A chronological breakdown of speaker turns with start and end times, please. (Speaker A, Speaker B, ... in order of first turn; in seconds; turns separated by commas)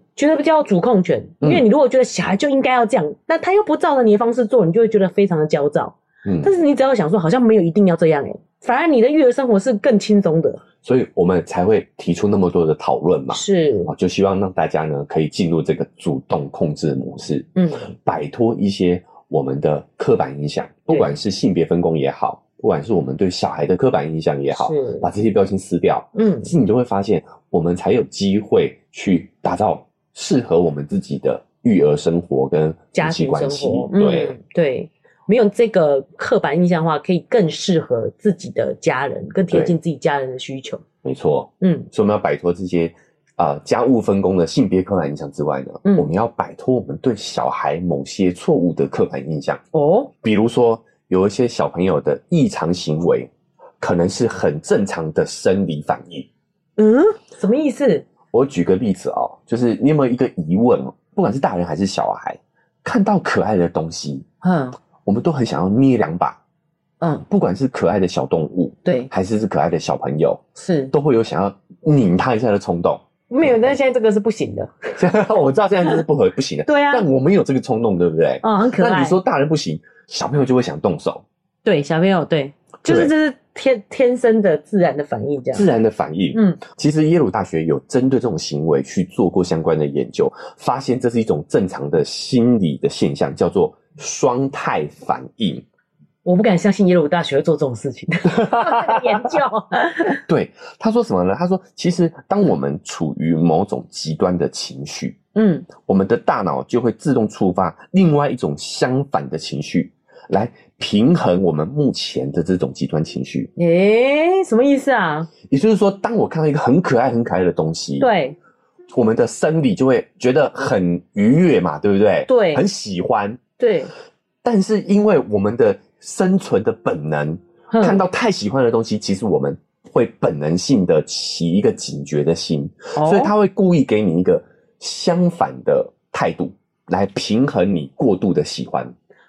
Speaker A: 0.1-10.6, Speaker B: 6.2-6.5, Speaker B: 10.8-34.4, Speaker A: 13.3-13.9, Speaker A: 17.6-17.9, Speaker A: 24.5-25.1, Speaker A: 26.1-26.5, Speaker A: 33.0-40.8, Speaker B: 41.0-49.6, Speaker A: 41.6-41.9, Speaker A: 49.7-50.1, Speaker B: 50.2-56.3, Speaker A: 56.8-58.0, Speaker B: 58.3-64.3, Speaker A: 64.4-64.8, Speaker B: 65.0-66.4, Speaker A: 67.0-67.3, Speaker B: 67.3-73.7, Speaker A: 68.8-69.1, Speaker A: 70.6-70.9, Speaker A: 73.3-75.0, Speaker B: 75.0-81.2, Speaker A: 76.7-77.1, Speaker A: 78.4-79.2, Speaker A: 81.7-85.7, Speaker B: 82.9-83.1, Speaker B: 85.5-95.7, Speaker A: 86.3-86.6, Speaker A: 96.2-100.2, Speaker B: 98.3-99.3, Speaker B: 100.3-105.2, Speaker A: 105.3-105.7, Speaker B: 105.8-113.5, Speaker A: 113.6-115.3, Speaker B: 115.5-118.1, Speaker A: 118.0-118.4, Speaker B: 118.9-123.4, Speaker A: 122.3-122.6, Speaker A: 123.6-123.9, Speaker B: 124.4-138.9, Speaker A: 127.7-128.0, Speaker A: 132.9-133.3